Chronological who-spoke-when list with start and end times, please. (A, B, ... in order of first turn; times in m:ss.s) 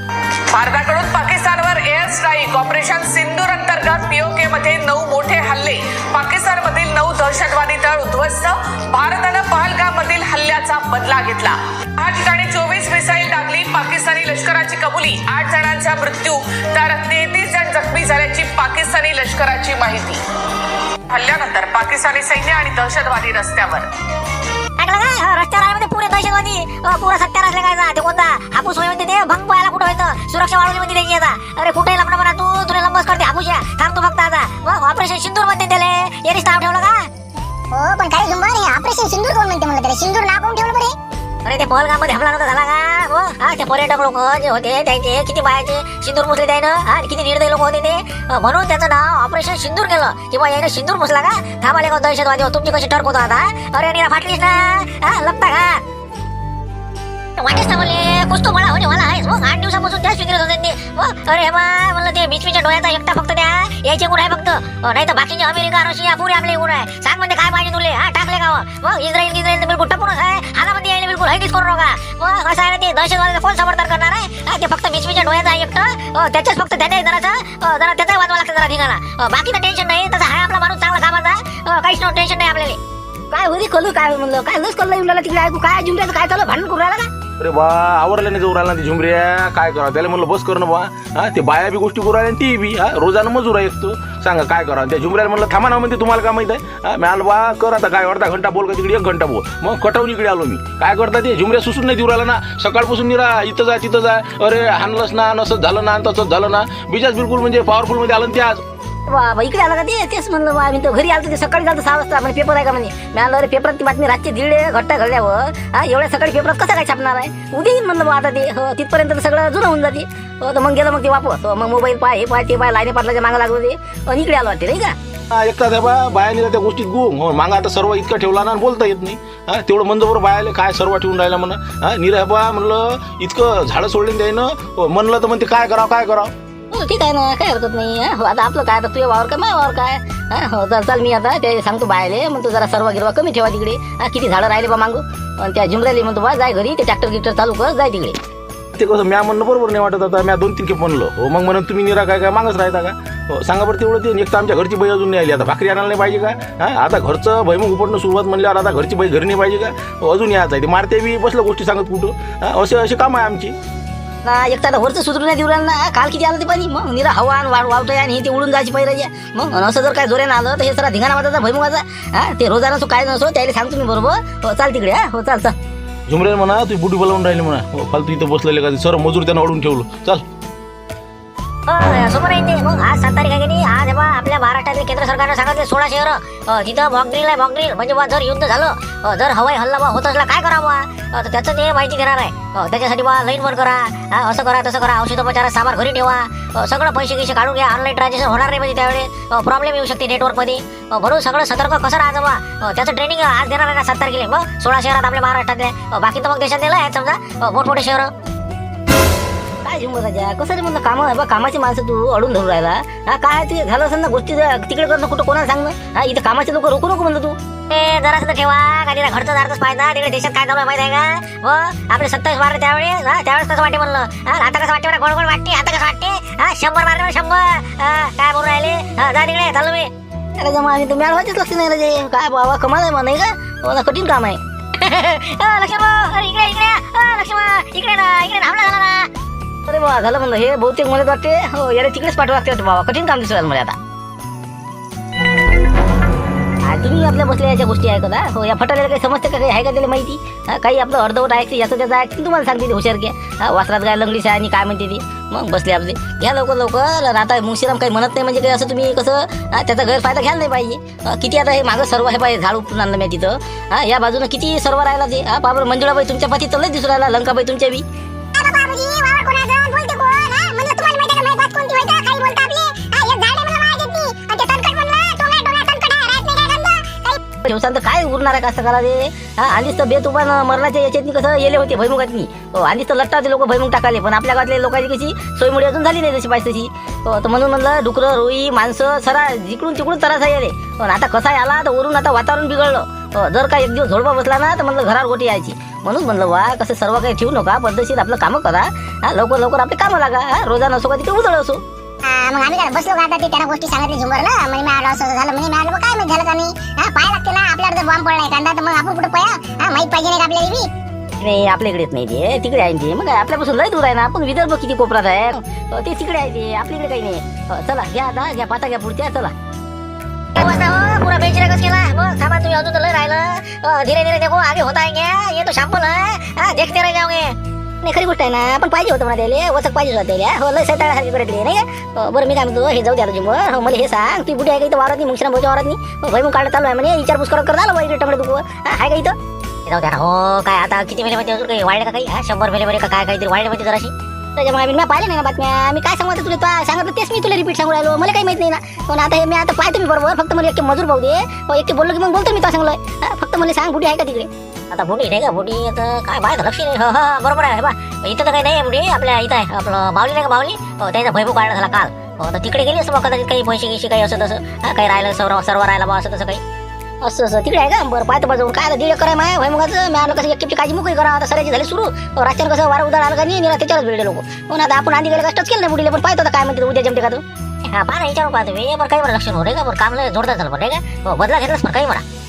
0:00.5-0:20.2 A
0:21.1-0:23.9 A
0:24.8-0:37.1 B
0:37.7-0:40.9 C
0:41.4-0:55.8 B
0:57.4-1:22.8 B
1:23.3-1:27.1 D
1:27.4-1:48.6 E
1:49.1-2:04.9 D
2:05.3-2:16.3 E
2:16.7-2:28.2 D
2:28.8-2:43.5 E
2:44.2-2:55.5 D
2:56.1-3:00.2 E
3:01.7-3:28.1 B
3:29.6-3:37.4 D
3:37.7-3:49.9 B
3:50.4-3:54.4 D
3:54.8-3:59.1 B
3:59.7-4:03.8 D
4:06.7-4:27.8 D
4:28.3-4:37.2 C
4:37.4-5:01.6 D
5:02.0-5:10.7 C
5:11.2-5:19.3 D
5:20.4-5:27.3 B
5:27.8-5:39.1 D
5:39.6-5:43.9 B
5:44.4-5:54.3 D
5:54.7-6:06.4 B
6:07.0-6:17.2 D
6:17.7-6:22.0 B